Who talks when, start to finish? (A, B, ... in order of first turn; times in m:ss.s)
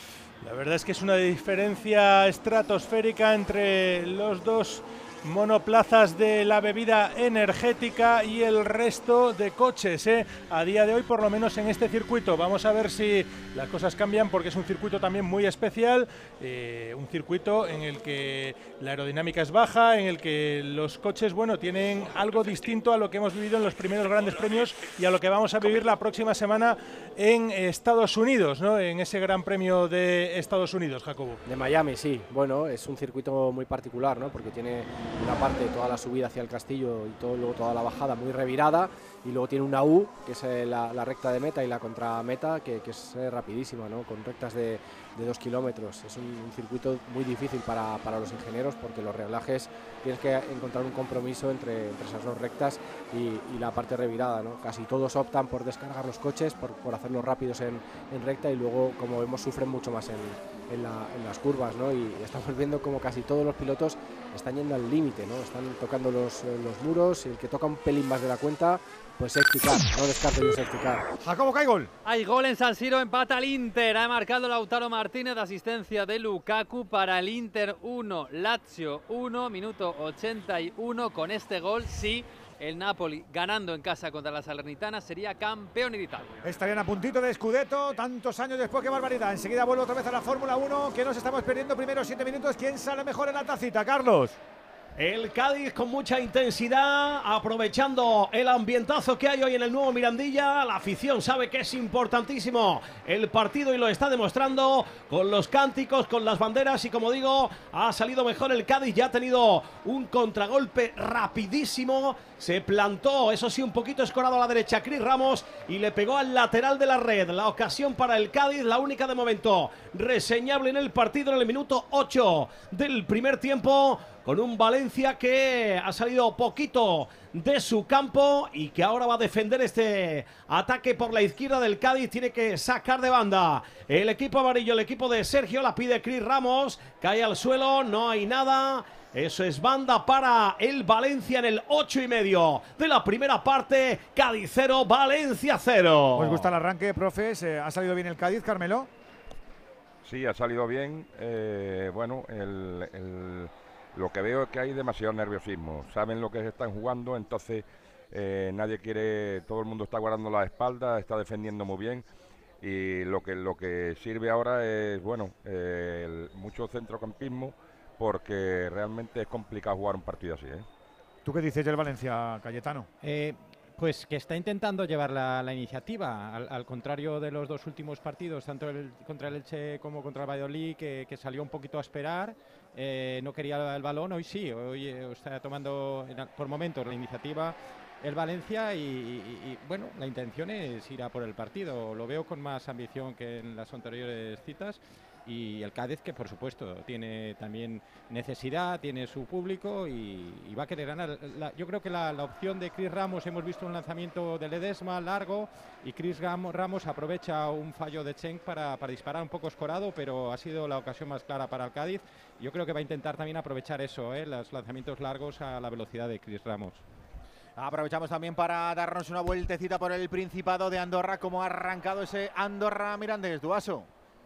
0:00.4-0:31.4 A
0:31.4-1:11.0 B
1:11.2-1:11.9 C
1:12.0-1:26.4 D
1:26.4-1:34.4 C
1:35.0-2:26.5 E
2:26.2-2:28.9 C
2:30.0-2:42.0 F
2:42.6-2:50.6 F
2:51.2-2:52.9 C
2:53.0-3:36.8 G
3:37.6-3:43.9 H